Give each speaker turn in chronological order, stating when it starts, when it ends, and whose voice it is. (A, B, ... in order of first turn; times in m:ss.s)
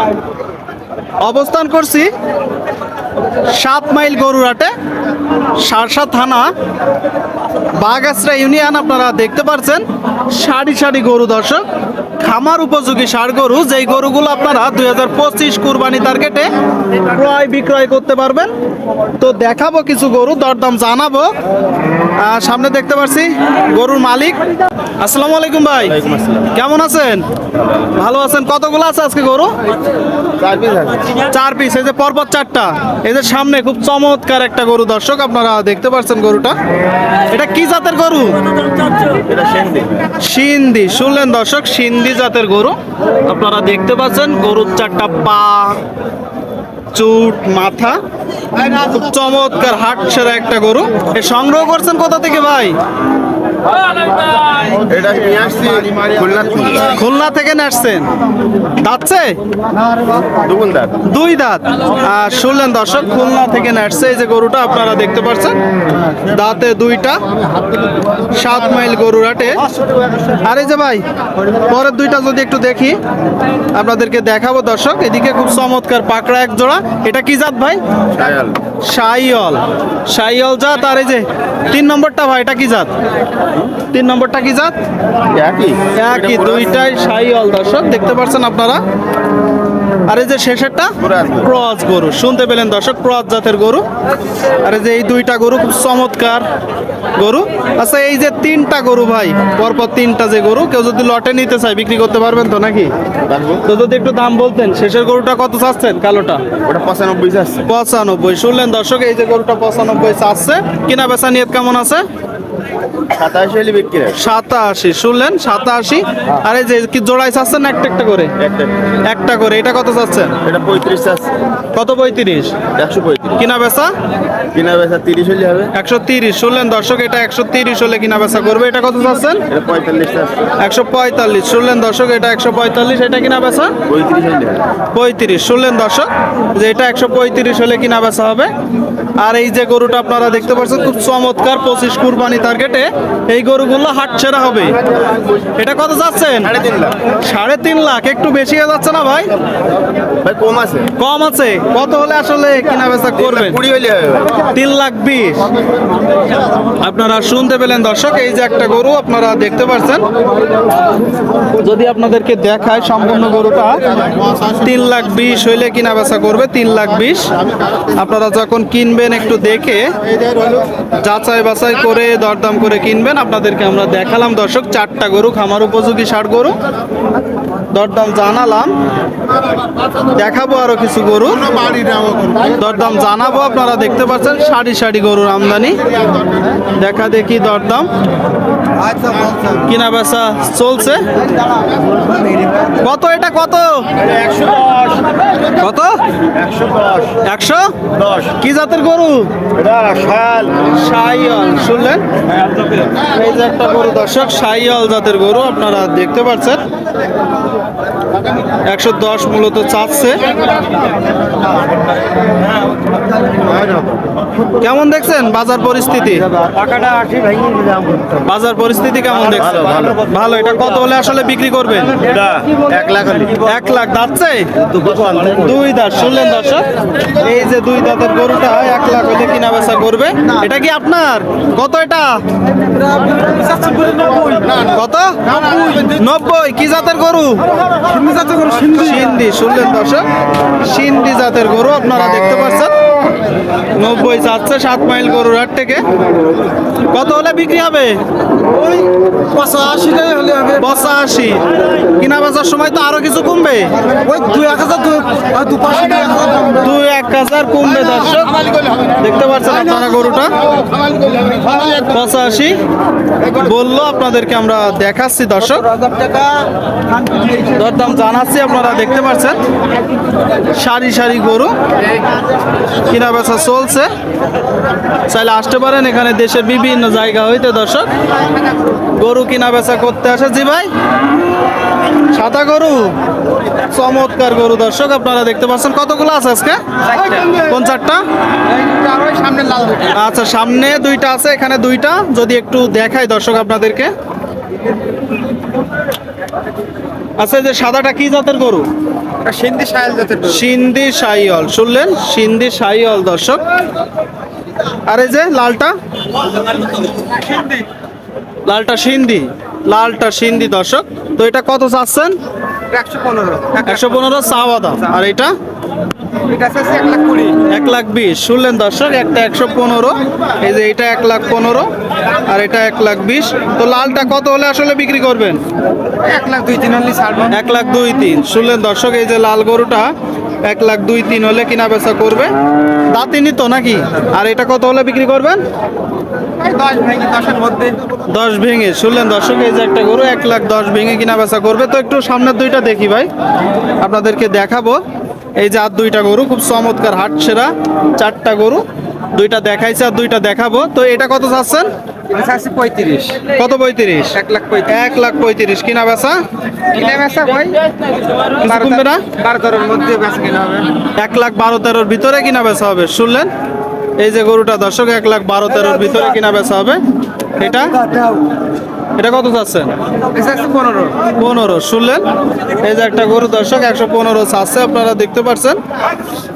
0:01.2-0:02.1 A
0:03.5-0:04.7 A
0:05.6-0:06.5 A
0:07.8-0:11.6 A
0:12.2-0:16.5 A
0:17.0-0:18.5 A
0:19.2-0:21.3 A
0:22.2-0:24.4 A
0:25.0-0:27.2 A
0:25.9-0:26.5 B
0:27.9-0:29.5 A
0:30.4-0:31.1 B
0:31.3-0:36.6 A
0:37.3-0:38.4 A
0:39.2-0:39.9 B
0:40.2-0:45.8 A
0:46.9-0:48.0 A
0:48.6-0:52.8 A
0:54.8-0:56.9 B
0:56.9-0:58.1 A
0:58.8-0:59.4 A
1:00.4-1:01.0 B
1:01.0-1:05.6 A
1:06.3-1:07.2 A
1:08.3-1:09.6 A
1:10.4-1:11.0 A
1:11.7-1:13.0 A
1:13.7-1:17.8 A
1:18.1-1:18.6 B
1:18.8-1:22.9 A
1:23.9-1:24.8 A
1:25.3-1:26.7 B
1:26.0-1:28.8 A
1:30.1-1:33.8 A
1:31.0-1:31.5 B
1:34.6-1:36.5 A
1:37.2-1:42.9 A
1:43.3-1:43.6 B
1:43.6-1:46.4 A
1:46.6-1:47.7 B
1:47.7-1:52.0 A
1:53.1-1:54.2 B
1:54.2-1:58.3 A
1:58.4-1:58.7 B
1:59.1-2:00.4 A
2:00.4-2:01.3 B
2:01.7-2:02.6 A
2:02.8-2:03.4 B
2:03.4-2:03.9 A
2:04.5-2:05.7 B
2:05.7-2:09.4 A
2:09.5-2:10.4 B
2:10.6-2:13.8 A
2:13.9-2:14.6 B
2:14.9-2:18.5 A
2:19.2-2:24.8 A
2:25.6-2:26.6 A
2:26.5-2:27.0 B
2:27.2-2:29.3 A
2:30.2-2:30.9 B
2:31.0-2:33.6 A
2:33.2-2:34.3 B
2:34.5-2:35.5 A
2:36.8-2:40.1 A
2:41.6-2:43.8 A
2:44.6-2:47.3 A
2:48.0-2:49.9 A
2:51.0-2:56.6 A
2:57.7-2:58.7 A
3:00.2-3:01.5 A
3:02.5-3:05.8 A
3:06.8-3:07.9 A
3:09.5-3:11.1 A
3:12.8-3:13.9 A
3:14.0-3:15.2 B
3:15.6-3:16.0 A
3:16.3-3:17.2 B
3:17.2-3:17.7 A
3:18.0-3:18.4 B
3:18.4-3:19.4 A
3:19.6-3:20.5 B
3:20.7-3:22.1 A
3:23.0-3:26.6 A
3:28.7-3:30.2 A
3:34.6-3:36.3 A
3:36.5-3:38.1 C
3:38.2-3:42.0 A
3:39.4-3:40.0 B
3:42.0-3:43.4 B
3:43.4-3:44.6 A
3:44.6-3:45.5 B
3:45.4-3:52.2 A
3:53.0-3:54.5 C
3:54.6-3:55.2 A
3:55.8-3:57.4 A
3:57.9-3:59.0 C
3:58.7-4:00.1 A
4:00.6-4:02.8 A
4:03.8-4:05.8 A
4:06.9-4:08.0 A
4:09.3-4:10.6 C
4:10.5-4:13.7 A
4:14.0-4:16.5 C
4:16.5-4:18.4 A
4:19.0-4:20.4 A
4:21.9-4:22.6 A
4:23.3-4:25.8 A
4:26.0-4:26.3 C
4:27.4-4:29.4 A
4:30.5-4:31.5 A
4:32.8-4:33.9 A
4:35.1-4:37.9 A
4:39.0-4:40.7 A
4:42.1-4:43.0 A
4:43.7-4:46.6 A
4:46.9-4:47.4 C
4:47.2-4:48.0 A
4:48.6-4:49.9 C
4:49.9-4:53.9 A
4:57.2-4:58.7 A
4:59.2-5:00.4 C
5:00.2-5:03.4 A
5:04.9-5:05.7 A
5:07.1-5:07.6 C
5:08.5-5:12.2 A
5:12.7-5:13.9 C
5:13.6-5:15.3 A
5:16.3-5:17.4 C
5:17.4-5:21.7 A
5:22.3-5:25.4 A
5:26.0-5:27.3 C
5:27.3-5:29.9 A
5:30.4-5:32.3 A
5:32.9-5:35.4 A
5:36.4-5:37.8 C
5:38.1-5:43.1 A
5:43.8-5:44.8 A
5:45.4-5:51.7 A
5:52.1-5:53.2 C
5:53.3-5:56.2 A
5:54.2-5:54.7 C
5:56.7-5:57.6 C
5:58.4-5:59.1 A
5:58.4-6:00.7 C
6:00.9-6:03.3 A
6:04.0-6:06.8 A
6:07.4-6:07.8 A
6:07.9-6:08.2 C
6:09.0-6:09.7 A
6:10.1-6:11.0 C
6:11.1-6:12.0 A
6:12.6-6:15.6 A